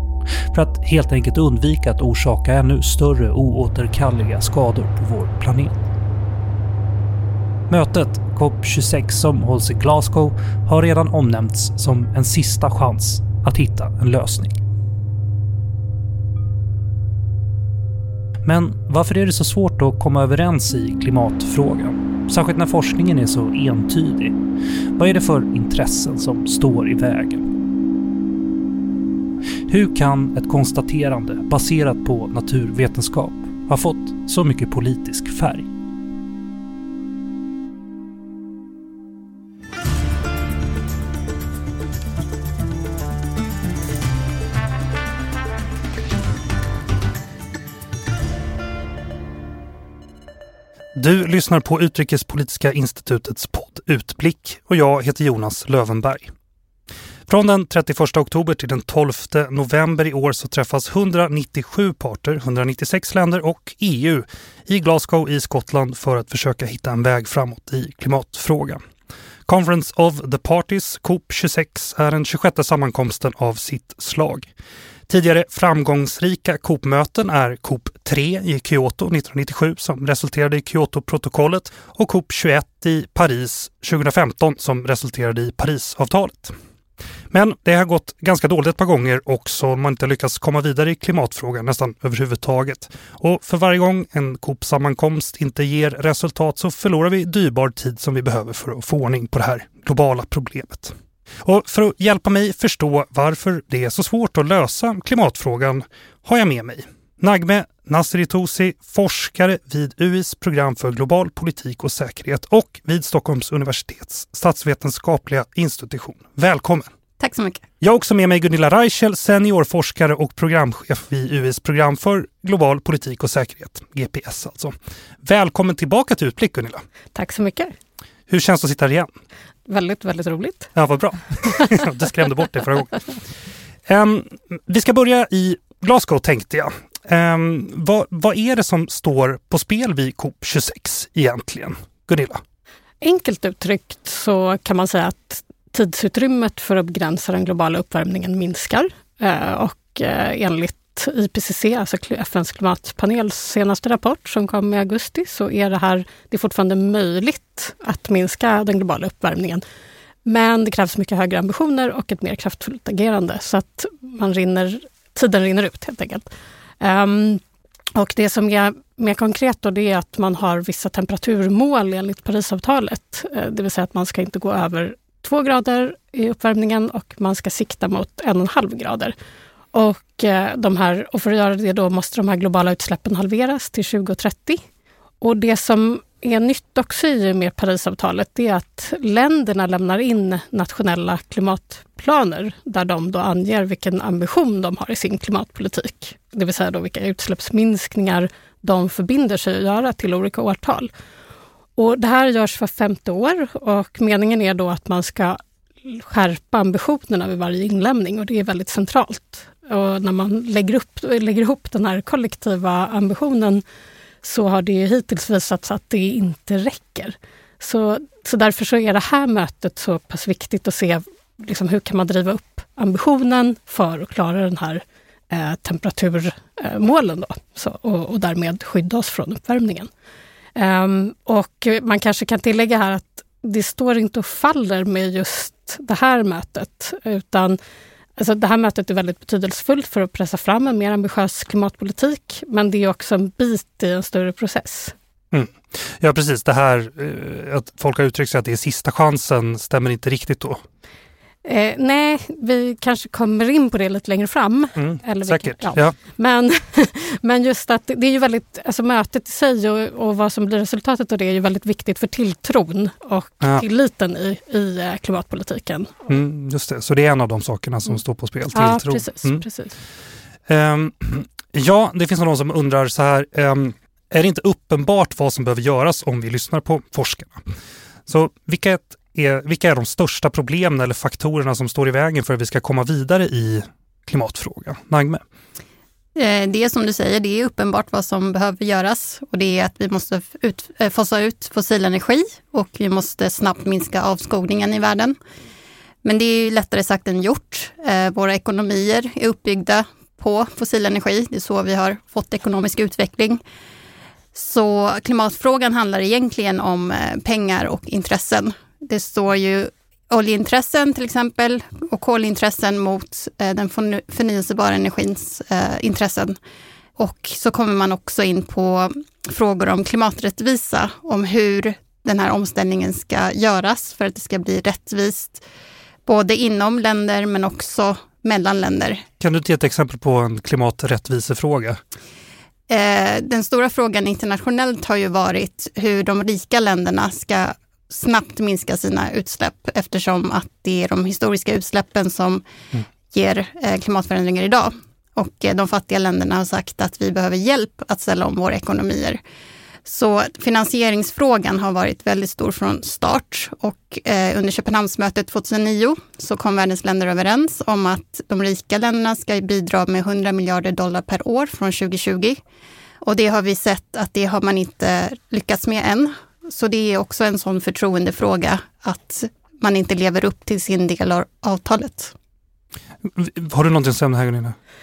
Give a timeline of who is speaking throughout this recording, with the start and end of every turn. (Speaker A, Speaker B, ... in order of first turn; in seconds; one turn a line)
Speaker A: 0.5-5.8
Speaker A: 7.7-14.6
Speaker A: 18.4-24.4
Speaker A: 25.0-27.5
Speaker A: 29.7-35.7
Speaker A: 51.0-56.3
Speaker A: 57.3-68.8
Speaker A: 69.5-74.5
Speaker A: 75.1-86.5
Speaker A: 87.3-116.9
Speaker B: 117.2-117.7
Speaker A: 117.8-126.8
Speaker C: 127.1-127.7
Speaker A: 128.3-129.1
Speaker C: 129.7-130.7
Speaker A: 130.7-133.0
Speaker A: 133.9-142.4
Speaker C: 143.0-159.6
Speaker C: 160.2-166.3
Speaker C: 166.8-167.4
Speaker C: 167.9-179.1
Speaker C: 179.7-184.6
Speaker C: 185.2-200.9
Speaker C: 201.8-213.6
Speaker C: 214.2-229.9
Speaker C: 230.6-237.6
Speaker C: 238.2-244.9
Speaker A: 245.3-250.6
Speaker C: 251.4-266.1
Speaker A: 254.8-256.0
Speaker A: 266.1-269.4
Speaker C: 268.5-269.7
Speaker A: 270.5-277.4
Speaker A: 278.1-285.2
Speaker B: 286.2-295.2
Speaker B: 296.0-303.4
Speaker B: 304.4-316.4
Speaker B: 317.0-325.4
Speaker B: 326.1-329.0
Speaker A: 329.2-331.8
Speaker B: 332.7-342.4
Speaker B: 343.1-349.2
Speaker B: 349.9-362.4
Speaker B: 363.0-372.1
Speaker A: 373.0-374.6